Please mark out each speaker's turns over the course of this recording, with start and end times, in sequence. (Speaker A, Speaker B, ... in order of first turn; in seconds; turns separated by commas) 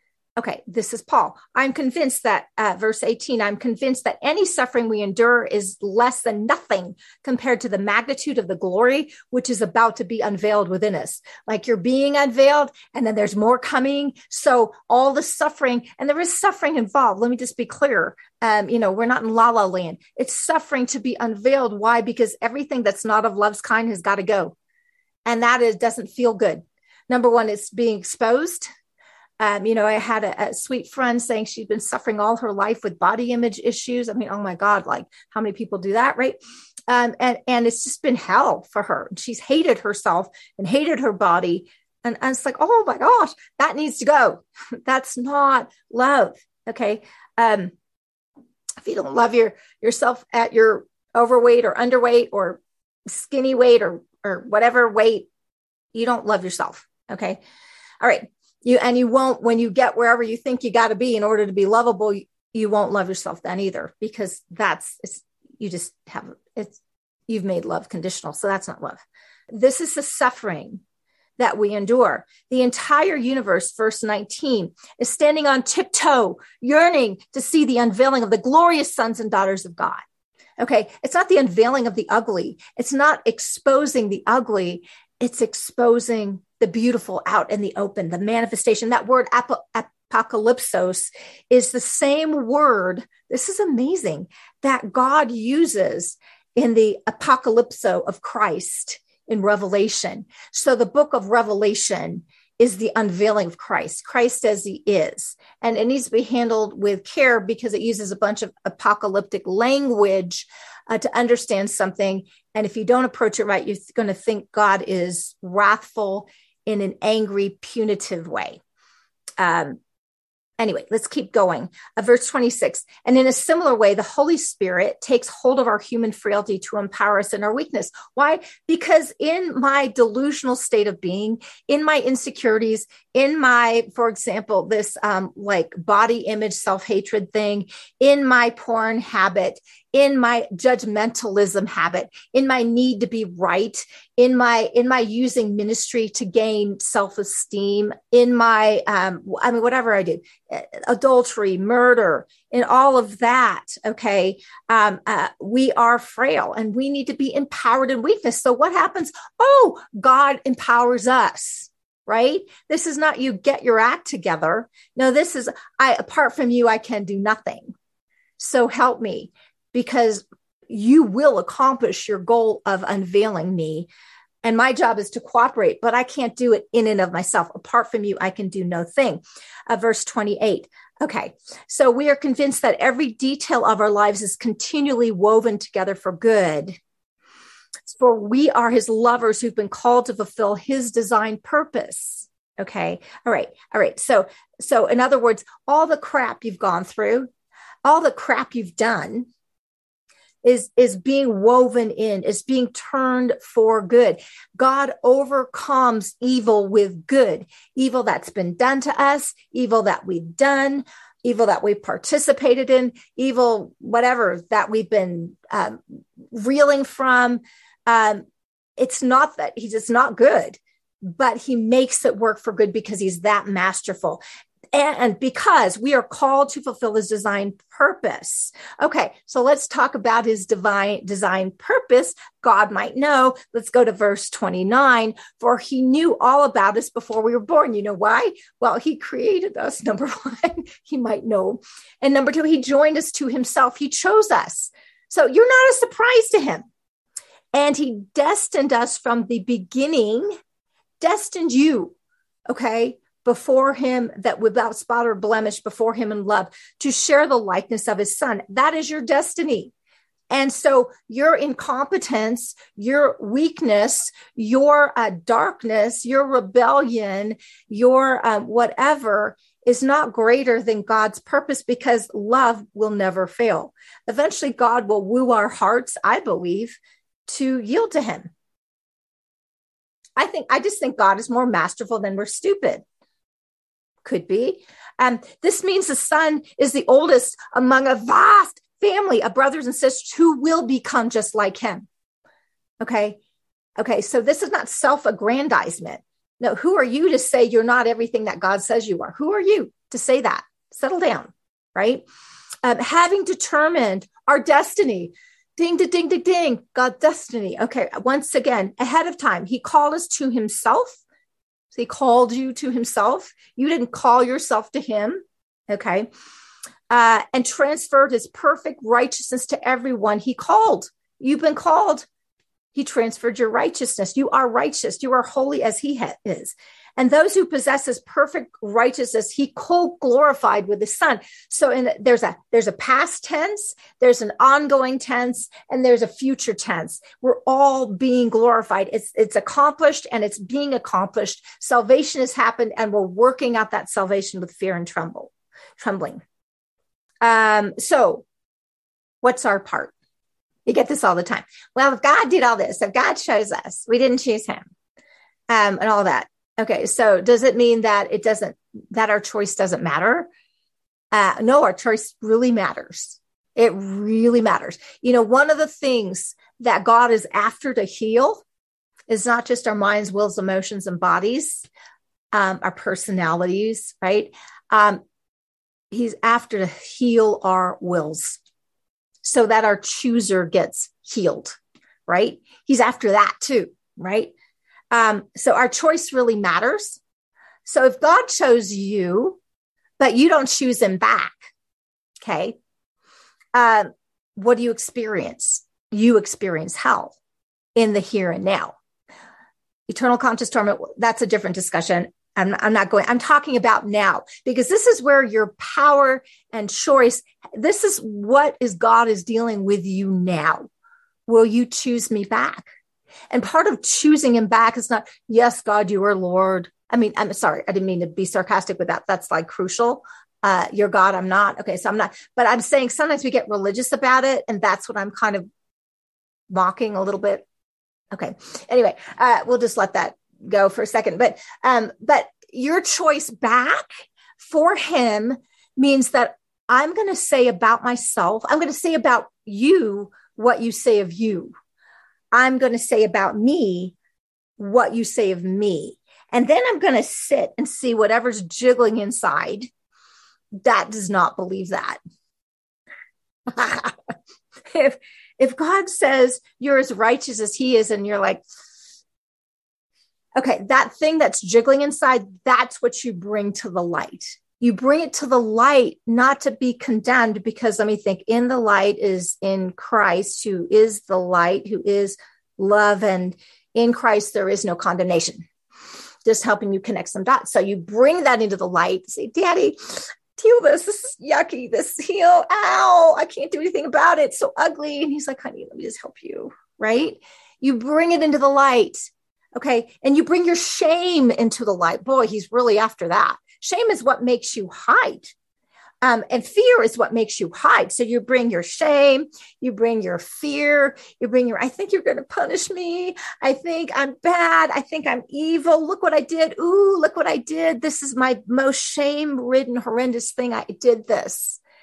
Speaker A: 0.4-24.5, Speaker A: 25.2-28.6, Speaker A: 29.4-36.4, Speaker A: 36.9-47.7, Speaker A: 48.8-55.3, Speaker A: 55.9-57.4, Speaker A: 58.0-70.8, Speaker A: 71.4-80.0, Speaker A: 80.6-118.6, Speaker A: 119.4-119.8, Speaker A: 120.6-167.7, Speaker A: 168.4-173.9, Speaker A: 174.4-186.8, Speaker A: 187.8-197.3, Speaker A: 197.8-199.3, Speaker A: 200.4-215.8, Speaker A: 216.3-218.2, Speaker A: 218.8-224.2, Speaker A: 224.7-246.6, Speaker A: 247.5-250.3, Speaker A: 251.0-251.9, Speaker A: 252.5-259.7, Speaker A: 260.3-278.3, Speaker A: 280.2-282.8, Speaker A: 284.0-291.9, Speaker A: 292.8-293.2, Speaker A: 293.8-302.0, Speaker A: 302.6-311.0, Speaker A: 311.7-316.1, Speaker A: 316.9-322.1, Speaker A: 322.7-346.2, Speaker A: 347.2-348.2, Speaker A: 349.2-349.9, Speaker A: 350.6-354.7, Speaker A: 355.5-360.3, Speaker A: 361.1-368.4, Speaker A: 369.1-371.7, Speaker A: 372.3-375.0, Speaker A: 375.9-378.4, Speaker A: 379.2-381.6, Speaker A: 382.1-384.3, Speaker A: 384.9-387.0, Speaker A: 387.6-389.4, Speaker A: 390.0-391.5, Speaker A: 392.2-392.6, Speaker A: 393.5-397.1, Speaker A: 397.8-398.8, Speaker A: 399.9-410.7, Speaker A: 411.3-412.7, Speaker A: 413.3-425.4, Speaker A: 426.5-427.4, Speaker A: 428.1-441.5, Speaker A: 442.3-443.9, Speaker A: 444.6-449.7, Speaker A: 450.6-452.0, Speaker A: 453.5-453.9, Speaker A: 454.7-458.4, Speaker A: 460.4-475.4, Speaker A: 476.2-495.3, Speaker A: 496.0-511.6